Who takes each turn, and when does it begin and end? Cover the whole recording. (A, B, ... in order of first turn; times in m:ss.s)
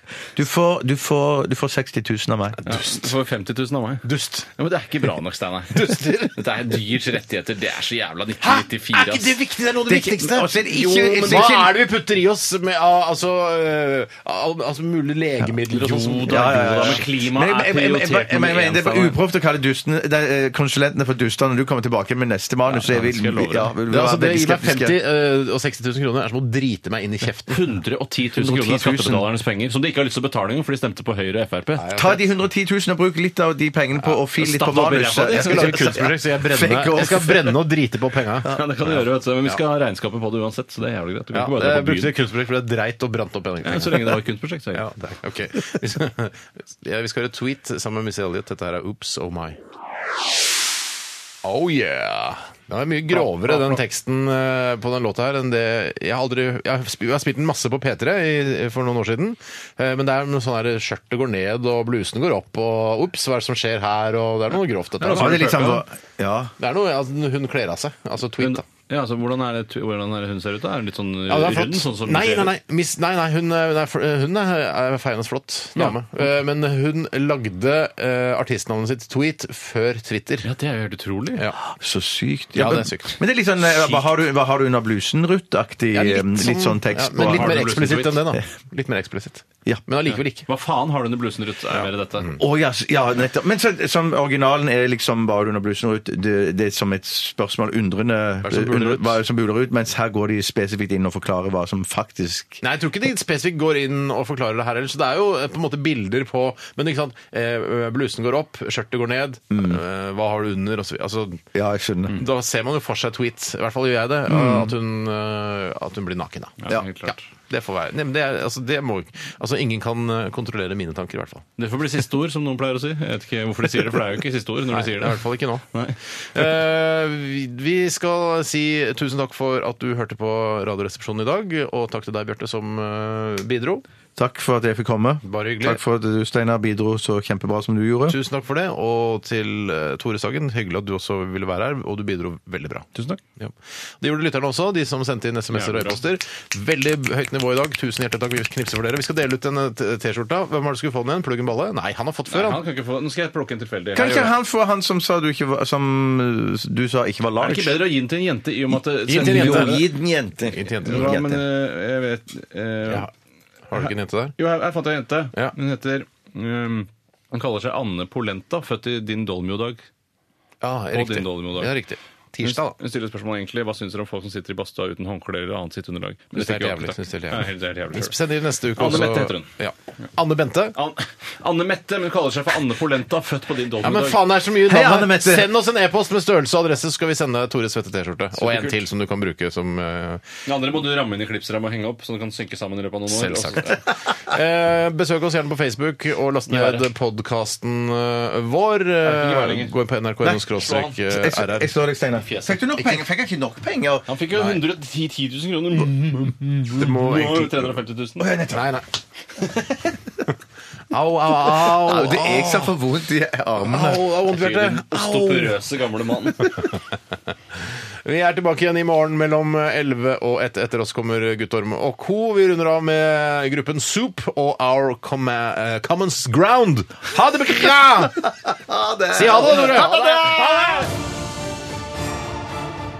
0:00.3-0:02.6 A
0:02.6-0:03.0 B
0:02.6-0:09.4 C
0:04.0-0:04.5 B
0:05.7-0:06.4 B
0:08.4-0:17.0 B
0:09.8-0:11.8 A
0:15.7-0:19.2 C
0:16.2-0:25.0 A
0:22.6-0:23.7 C
0:23.9-0:27.6 B
0:27.5-0:31.9 C
0:28.3-0:29.3 A
0:31.8-0:32.2 B
0:31.9-0:37.6 A
0:34.4-0:36.0 C
0:35.3-0:39.6 B
0:38.4-0:42.1 C
0:41.3-0:44.2 B
0:43.6-0:44.8 C
0:44.7-0:49.6 B
0:51.4-1:05.6 B
0:53.1-0:53.8 C
1:05.0-1:05.8 C
1:05.0-1:06.5 A
1:06.6-1:08.6 B
1:08.4-1:12.5 C
1:11.3-1:20.5 B
1:20.4-1:21.4 C
1:21.6-1:27.8 A
1:22.5-1:23.2 B
1:25.9-1:30.4 B
1:27.2-1:28.2 C
1:30.1-1:32.3 C
1:31.7-1:32.4 B
1:32.4-1:42.6 A
1:38.4-1:39.2 B
1:42.6-1:51.4 B
1:49.5-1:49.8 A
1:51.5-1:52.2 A
1:52.1-2:01.4 B
1:54.3-1:54.8 A
1:56.6-1:57.2 C
2:01.6-2:05.2 C
2:04.7-2:05.6 B
2:05.7-2:06.0 C
2:06.3-2:13.8 B
2:14.2-2:18.2 A
2:15.2-2:15.8 B
2:18.1-2:32.6 B
2:22.9-2:23.2 C
2:25.5-2:26.0 C
2:32.3-2:34.3 C
2:33.9-2:37.8 A
2:37.4-2:39.9 C
2:38.7-2:41.4 A
2:39.1-2:39.9 B
2:40.5-2:41.1 B
2:40.8-2:43.1 C
2:43.7-2:44.4 B
2:43.8-2:49.8 C
2:50.6-2:52.8 B
2:50.9-2:51.7 C
2:52.4-2:58.2 C
2:56.3-3:00.8 B
2:58.7-2:59.5 C
3:00.7-3:04.2 C
3:03.8-3:10.2 B
3:04.6-3:05.5 A
3:08.4-3:08.8 C
3:10.4-3:13.8 C
3:13.1-3:21.7 B
3:16.5-3:16.9 C
3:19.0-3:19.7 C
3:20.3-3:21.0 C
3:21.1-3:24.1 A
3:22.2-3:23.0 C
3:24.1-3:28.3 C
3:26.7-3:27.7 B
3:28.2-3:28.6 A
3:28.5-3:28.8 B
3:29.4-3:29.8 C
3:30.9-3:32.8 B
3:31.5-3:34.0 A
3:33.6-3:35.6 B
3:34.3-3:36.6 C
3:38.0-3:48.5 B
3:48.4-3:50.8 A
3:49.1-3:50.8 B